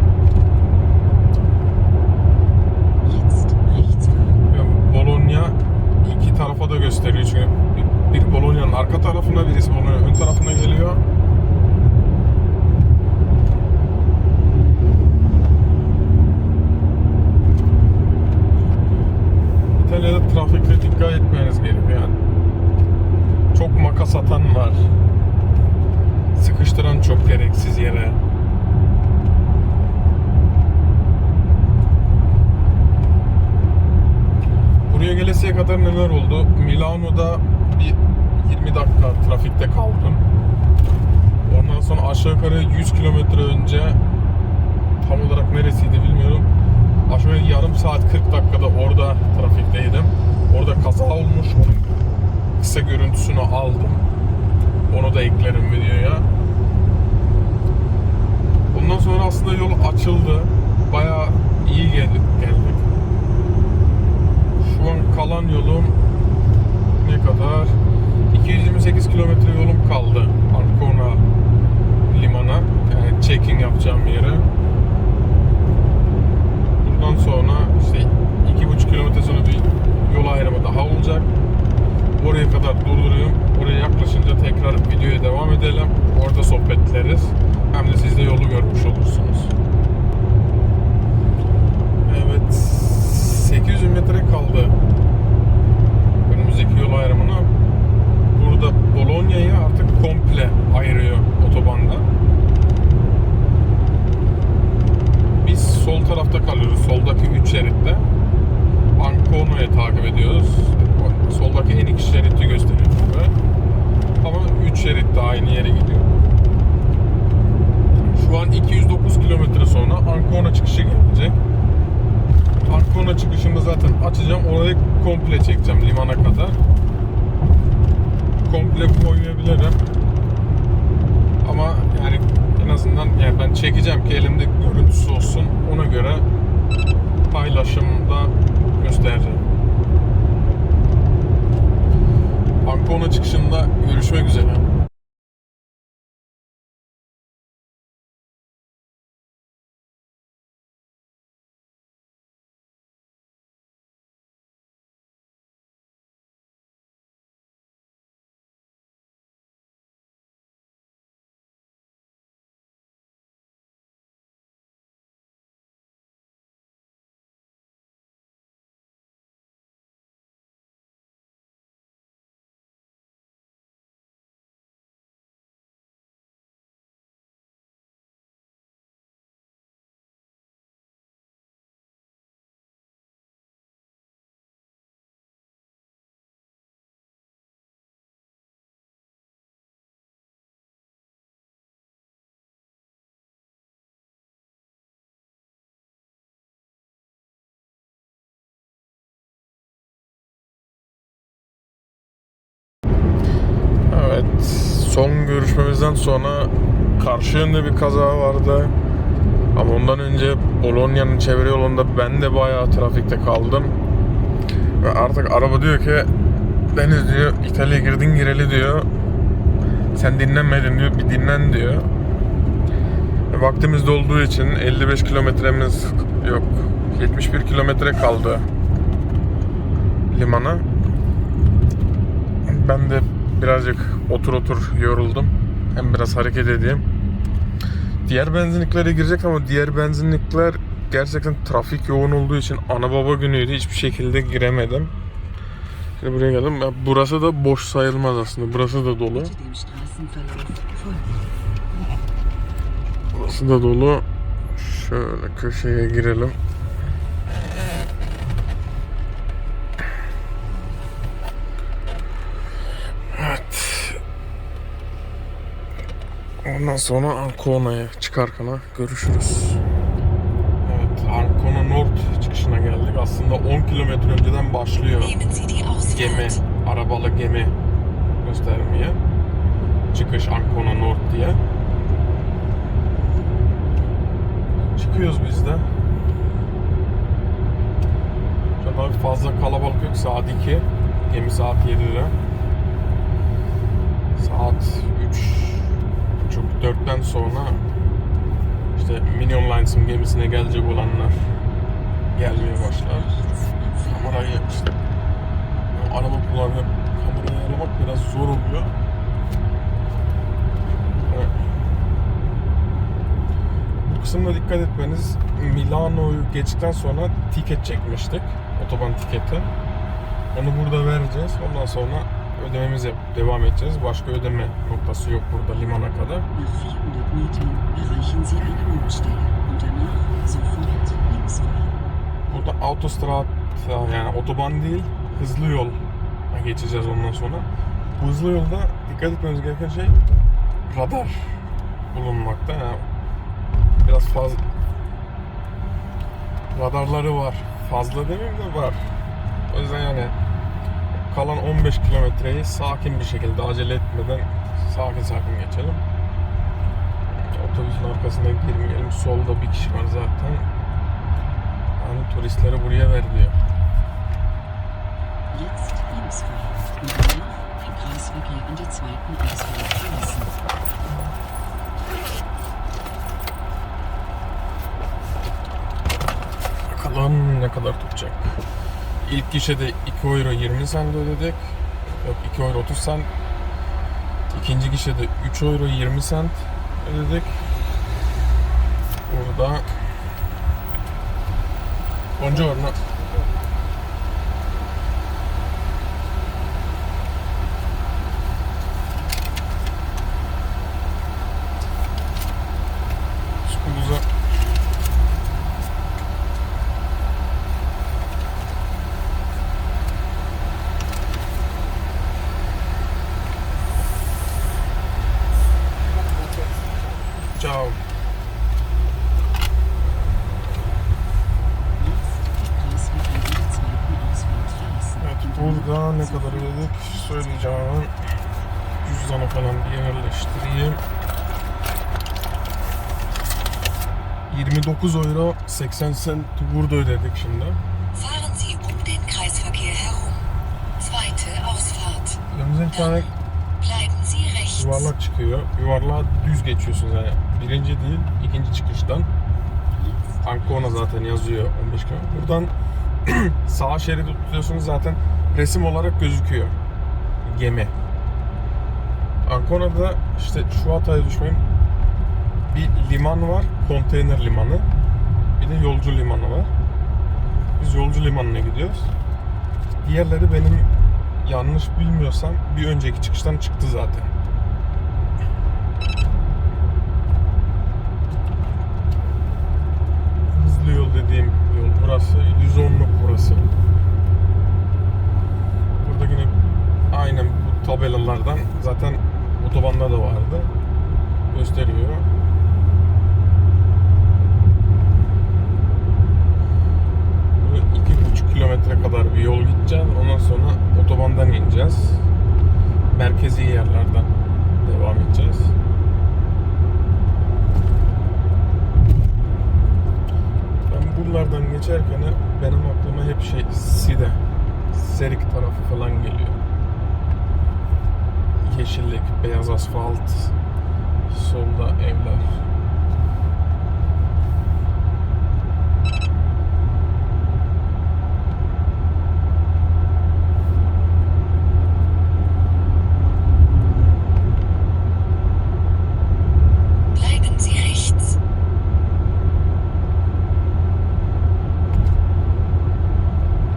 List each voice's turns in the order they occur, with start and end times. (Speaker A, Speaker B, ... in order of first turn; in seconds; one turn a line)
Speaker A: 3.0-4.4
Speaker B: 4.5-11.0
Speaker B: 19.8-22.2
Speaker B: 23.5-24.9
Speaker B: 26.4-28.2
Speaker B: 34.9-40.2
Speaker B: 41.5-44.0
Speaker B: 45.0-46.5
Speaker B: 47.1-51.9
Speaker B: 52.6-54.0
Speaker B: 54.9-56.3
Speaker B: 58.7-62.8
Speaker B: 64.6-66.0
Speaker B: 66.9-67.8
Speaker B: 68.3-71.2
Speaker B: 72.1-74.5
Speaker B: 76.8-81.3
Speaker B: 82.2-89.5
Speaker B: 92.0-94.8
Speaker B: 96.2-97.5
Speaker B: 98.3-102.0
Speaker B: 105.4-108.0
Speaker B: 109.0-113.3
Speaker B: 114.2-116.1
Speaker B: 118.1-121.4
Speaker B: 122.7-126.6
Speaker B: 128.4-129.8
Speaker B: 131.4-136.3
Speaker B: 137.3-139.4
Speaker B: 142.6-144.7
Speaker B: 203.9-208.7
Speaker B: 209.5-213.8
Speaker B: 214.8-216.1
Speaker B: 216.7-218.9
Speaker B: 219.9-221.9
Speaker B: 223.3-228.4
Speaker B: 230.1-230.7
Speaker B: 232.4-236.8
Speaker B: 238.0-244.9
Speaker B: 246.0-249.3
Speaker A: 249.1-251.3
Speaker B: 253.1-256.4
Speaker B: 263.1-264.0
Speaker B: 266.4-269.6
Speaker B: 270.6-275.1
Speaker C: 275.0-276.4
Speaker B: 275.9-277.6
Speaker B: 278.2-279.0
Speaker B: 279.9-281.4
Speaker B: 284.7-285.7
Speaker B: 288.6-292.1
Speaker B: 294.1-297.6
Speaker B: 298.7-301.2
Speaker B: 302.1-303.1
Speaker A: 302.2-304.2
Speaker B: 303.8-304.7
Speaker B: 305.7-308.7
Speaker B: 311.0-311.3
Speaker B: 313.8-319.5
Speaker B: 320.3-326.3
Speaker A: 326.3-331.8
Speaker B: 332.3-340.0
Speaker B: 340.7-341.3
Speaker B: 341.9-342.8
Speaker B: 343.8-344.4
Speaker B: 346.5-348.8
Speaker B: 349.5-350.1
Speaker B: 351.1-355.8
Speaker B: 357.2-360.4
Speaker B: 361.8-363.3
Speaker A: 365.3-370.4
Speaker B: 376.7-378.4
Speaker B: 379.0-383.1
Speaker B: 384.3-387.4
Speaker B: 389.1-389.7
Speaker B: 392.2-392.8
Speaker B: 403.4-404.1
Speaker B: 417.3-417.8
Speaker A: 421.8-426.7
Speaker B: 425.0-427.9
Speaker B: 428.8-430.8
Speaker B: 434.3-437.6
Speaker C: 437.9-440.2
Speaker C: 440.8-442.2
Speaker B: 442.3-443.1
Speaker C: 442.7-443.1
Speaker C: 443.6-444.9
Speaker B: 444.6-449.1
Speaker A: 449.7-450.9
Speaker B: 450.2-452.5
Speaker B: 453.0-456.6
Speaker B: 457.2-457.7
Speaker B: 459.2-461.4
Speaker B: 462.5-464.7
Speaker B: 465.4-466.5
Speaker B: 467.6-468.9
Speaker B: 469.8-470.7
Speaker B: 471.2-474.1
Speaker B: 480.3-483.5
Speaker B: 485.8-486.4
Speaker B: 486.9-490.5
Speaker B: 491.3-492.1
Speaker B: 497.4-502.0
Speaker B: 502.9-505.5
Speaker B: 510.7-514.2
Speaker B: 514.7-516.4
Speaker B: 518.4-520.3
Speaker B: 521.1-522.4
Speaker C: 536.9-538.2